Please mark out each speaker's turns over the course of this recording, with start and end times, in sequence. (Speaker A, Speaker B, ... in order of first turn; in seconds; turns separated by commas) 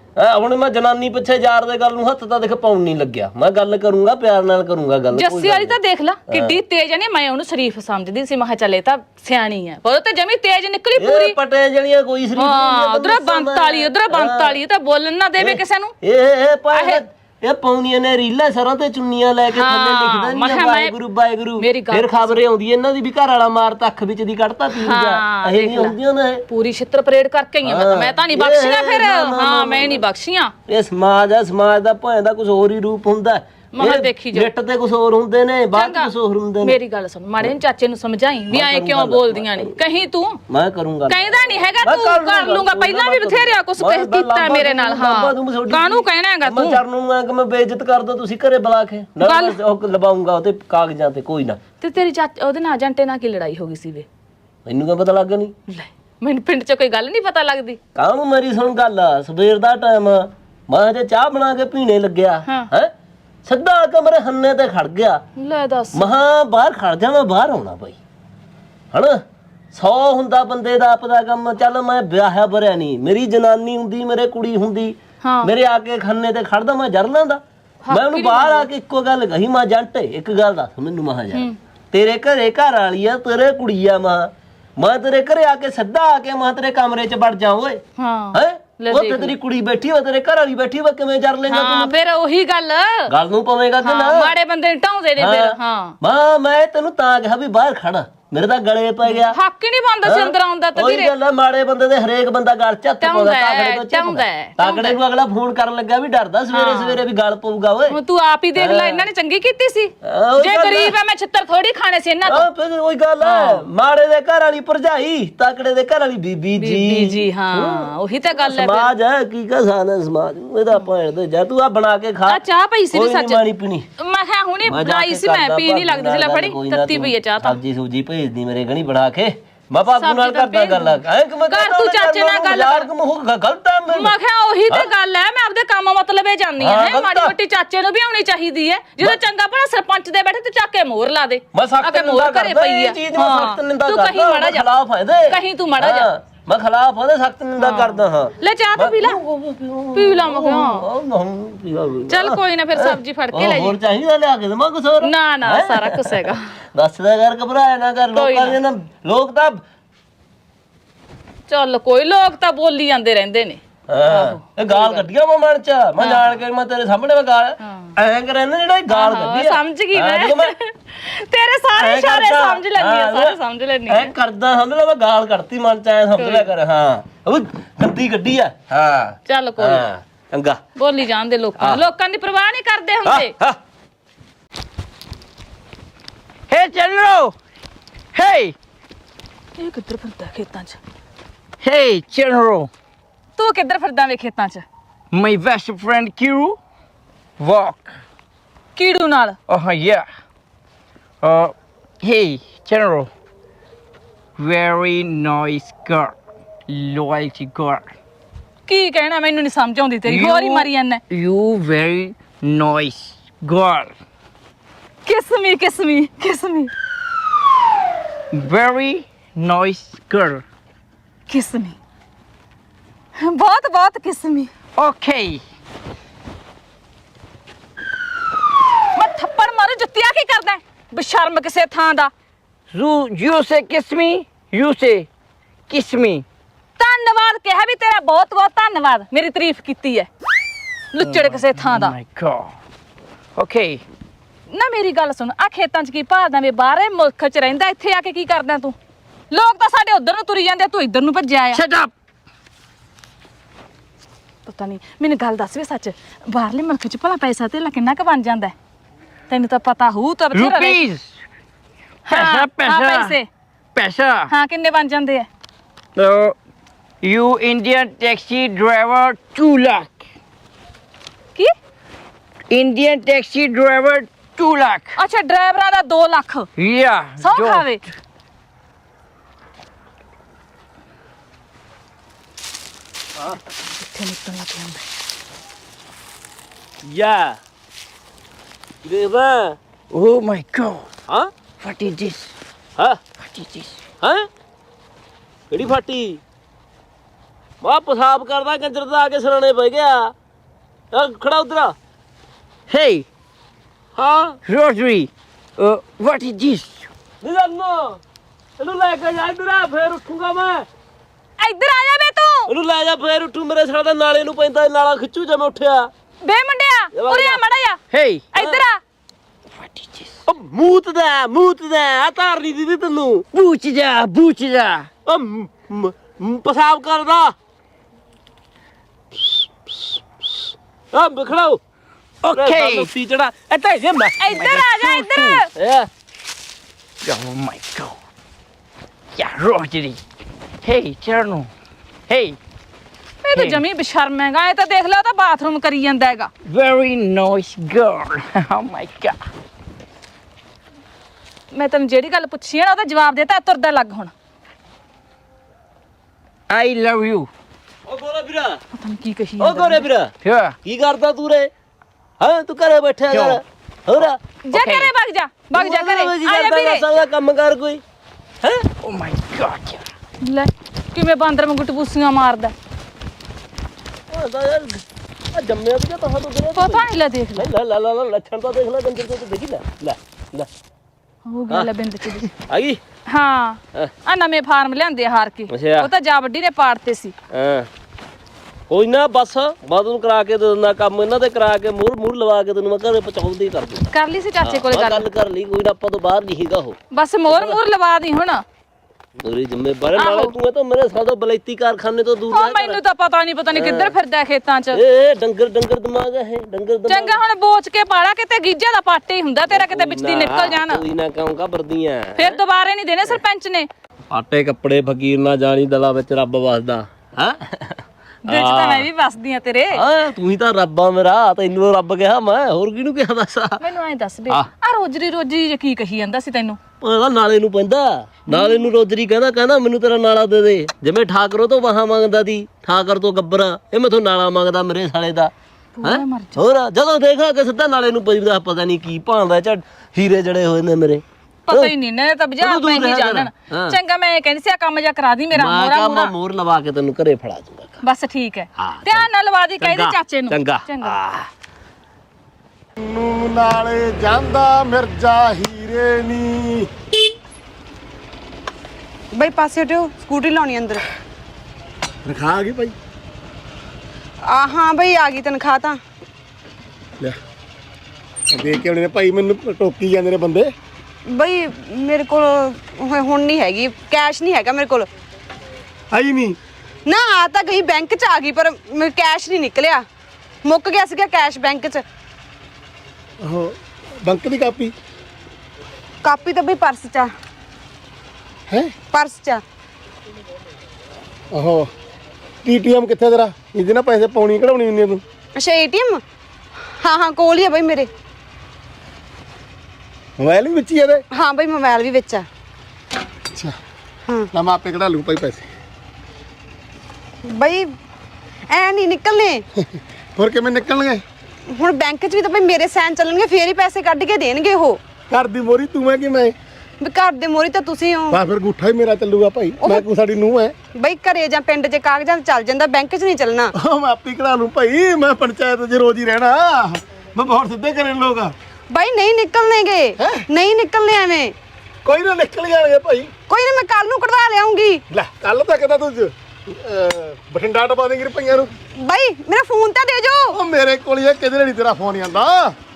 Speaker A: 0.2-5.8, Speaker B: 5.1-11.4, Speaker A: 6.3-6.5, Speaker A: 11.0-14.6, Speaker B: 12.4-15.9, Speaker A: 15.4-26.4, Speaker B: 16.7-17.0, Speaker B: 19.5-21.0, Speaker B: 21.6-22.4, Speaker B: 24.7-26.0, Speaker B: 26.5-30.5, Speaker A: 27.6-30.0, Speaker A: 30.7-36.8, Speaker B: 33.8-34.5, Speaker B: 35.7-40.4, Speaker A: 38.5-39.8, Speaker A: 40.5-51.6, Speaker B: 41.1-46.8, Speaker B: 49.2-49.6, Speaker B: 51.8-54.1, Speaker A: 54.7-55.5, Speaker B: 55.7-57.8, Speaker A: 58.0-62.9, Speaker A: 63.5-65.2, Speaker B: 65.4-66.1, Speaker A: 65.9-68.0, Speaker A: 68.9-69.2, Speaker A: 69.7-87.8, Speaker B: 75.2-75.5, Speaker B: 77.8-78.7, Speaker B: 88.0-89.3, Speaker A: 88.3-91.9, Speaker B: 91.5-93.1, Speaker A: 93.1-94.3, Speaker B: 93.8-96.0, Speaker A: 95.2-99.4, Speaker B: 99.1-101.1, Speaker A: 100.0-108.0, Speaker B: 103.0-105.0, Speaker B: 106.5-107.0, Speaker B: 107.9-112.5, Speaker A: 108.6-109.1, Speaker A: 110.0-110.9, Speaker A: 112.2-123.8, Speaker B: 113.2-113.7, Speaker B: 116.6-118.9, Speaker B: 122.3-123.4, Speaker B: 124.0-127.6, Speaker A: 124.7-134.2, Speaker B: 129.9-132.9, Speaker B: 133.9-144.7, Speaker A: 136.6-137.3, Speaker A: 141.5-159.6, Speaker B: 145.3-146.1, Speaker B: 147.6-149.2, Speaker B: 149.9-150.9, Speaker B: 152.1-153.8, Speaker B: 155.0-156.6, Speaker B: 158.1-158.6, Speaker B: 161.5-165.1, Speaker A: 163.9-170.5, Speaker B: 166.0-166.4, Speaker B: 167.6-167.9, Speaker B: 168.9-174.1, Speaker A: 171.8-180.6, Speaker B: 176.2-176.5, Speaker B: 179.3-179.9, Speaker B: 180.8-183.3, Speaker A: 183.1-183.6, Speaker C: 186.5-187.3, Speaker C: 188.1-188.6, Speaker B: 189.6-190.8, Speaker C: 191.6-192.7, Speaker B: 193.4-194.7, Speaker C: 195.1-196.6, Speaker C: 197.4-198.0, Speaker B: 198.8-199.4, Speaker C: 199.5-200.1, Speaker C: 201.2-203.1, Speaker C: 204.4-206.2, Speaker C: 206.7-207.9, Speaker B: 208.7-211.0, Speaker C: 210.1-213.9, Speaker B: 215.1-216.7, Speaker C: 218.3-220.4, Speaker B: 221.3-221.8, Speaker B: 223.2-224.5, Speaker C: 224.8-225.4, Speaker B: 228.9-232.1, Speaker C: 232.7-235.1, Speaker C: 235.7-236.2, Speaker B: 236.8-240.1, Speaker B: 240.9-241.9, Speaker C: 241.0-242.5, Speaker C: 243.4-243.8, Speaker B: 244.5-248.8, Speaker B: 249.3-251.6, Speaker C: 251.5-251.9, Speaker B: 254.5-258.5, Speaker B: 259.3-260.8, Speaker C: 260.3-261.1, Speaker B: 262.1-263.3, Speaker C: 262.1-263.2, Speaker C: 263.8-264.3, Speaker B: 264.3-265.3, Speaker C: 266.0-266.4, Speaker C: 267.0-270.0, Speaker C: 272.5-275.0, Speaker B: 274.9-276.5, Speaker C: 276.6-277.7, Speaker B: 277.2-277.8, Speaker B: 283.2-284.8, Speaker A: 286.8-287.4, Speaker A: 288.8-289.6, Speaker C: 289.9-290.9, Speaker C: 291.6-292.3, Speaker C: 293.2-293.8, Speaker A: 295.5-296.2, Speaker A: 297.6-300.1, Speaker A: 300.9-301.8, Speaker C: 302.7-303.1, Speaker A: 304.0-304.4, Speaker C: 304.4-306.9, Speaker A: 307.2-308.0, Speaker A: 308.6-310.7, Speaker B: 311.4-312.5, Speaker A: 312.5-315.9, Speaker B: 316.2-317.8, Speaker A: 316.9-317.4, Speaker C: 317.9-318.3, Speaker B: 318.3-318.8, Speaker A: 318.4-318.6, Speaker C: 319.6-320.1, Speaker A: 320.3-323.3, Speaker C: 323.3-324.9, Speaker A: 325.1-327.3, Speaker A: 329.2-331.6, Speaker C: 332.2-332.9, Speaker A: 332.3-335.9, Speaker B: 334.2-335.5, Speaker C: 334.3-335.3, Speaker C: 337.0-338.0, Speaker C: 339.1-340.0, Speaker C: 340.6-341.5, Speaker C: 342.1-342.4, Speaker B: 343.2-346.3, Speaker C: 343.3-343.6, Speaker C: 346.5-349.2, Speaker B: 351.5-354.1, Speaker C: 356.5-357.3, Speaker A: 357.9-358.6, Speaker B: 358.7-359.9, Speaker A: 359.4-360.1, Speaker C: 360.2-360.6, Speaker A: 360.6-361.5, Speaker A: 362.2-364.2, Speaker C: 363.1-363.4, Speaker B: 364.5-366.9, Speaker C: 364.5-364.9, Speaker A: 365.5-367.8, Speaker C: 368.8-369.9, Speaker B: 370.2-372.5, Speaker A: 374.1-380.5, Speaker B: 376.6-377.5, Speaker B: 381.3-382.3, Speaker A: 381.5-382.8, Speaker B: 383.1-387.1, Speaker A: 385.5-385.9, Speaker A: 387.3-387.7, Speaker A: 388.7-397.6, Speaker B: 393.9-395.1, Speaker B: 396.9-398.4, Speaker A: 399.2-402.8, Speaker B: 400.0-400.4, Speaker B: 402.3-404.8, Speaker A: 403.5-403.9, Speaker A: 404.7-407.2, Speaker B: 406.9-410.8, Speaker A: 409.5-412.4, Speaker B: 412.2-413.7, Speaker A: 414.1-418.9, Speaker B: 418.2-419.8, Speaker A: 419.7-423.6, Speaker B: 423.6-426.6, Speaker A: 426.8-435.3, Speaker B: 428.3-428.7, Speaker B: 435.8-436.4, Speaker A: 435.8-441.7, Speaker B: 441.5-446.1, Speaker A: 442.4-443.8, Speaker A: 445.3-447.8, Speaker B: 447.8-451.0, Speaker A: 448.6-449.1, Speaker A: 449.6-451.3, Speaker D: 452.8-456.7, Speaker E: 459.1-460.8, Speaker D: 462.1-462.8, Speaker E: 464.2-465.8, Speaker D: 468.3-470.5, Speaker E: 471.1-474.9, Speaker D: 475.9-476.4, Speaker E: 476.9-479.9, Speaker E: 480.4-481.8, Speaker D: 483.2-484.7, Speaker E: 486.0-487.1, Speaker D: 488.5-488.8, Speaker E: 488.9-489.4, Speaker D: 491.3-491.7, Speaker D: 492.4-495.0, Speaker E: 495.4-496.0, Speaker E: 496.8-497.9, Speaker D: 500.2-501.0, Speaker E: 501.1-502.3, Speaker D: 504.3-505.5, Speaker E: 507.2-507.7, Speaker E: 508.5-509.4, Speaker D: 510.2-511.0, Speaker E: 511.5-514.8, Speaker D: 515.1-516.4, Speaker E: 516.8-518.2, Speaker D: 518.1-520.5, Speaker E: 519.6-519.9, Speaker E: 520.8-523.5, Speaker D: 523.6-528.4, Speaker E: 528.7-531.4, Speaker D: 530.0-530.2, Speaker D: 531.9-533.1, Speaker E: 533.3-534.8, Speaker D: 534.9-538.5, Speaker E: 538.8-540.4, Speaker D: 540.3-542.5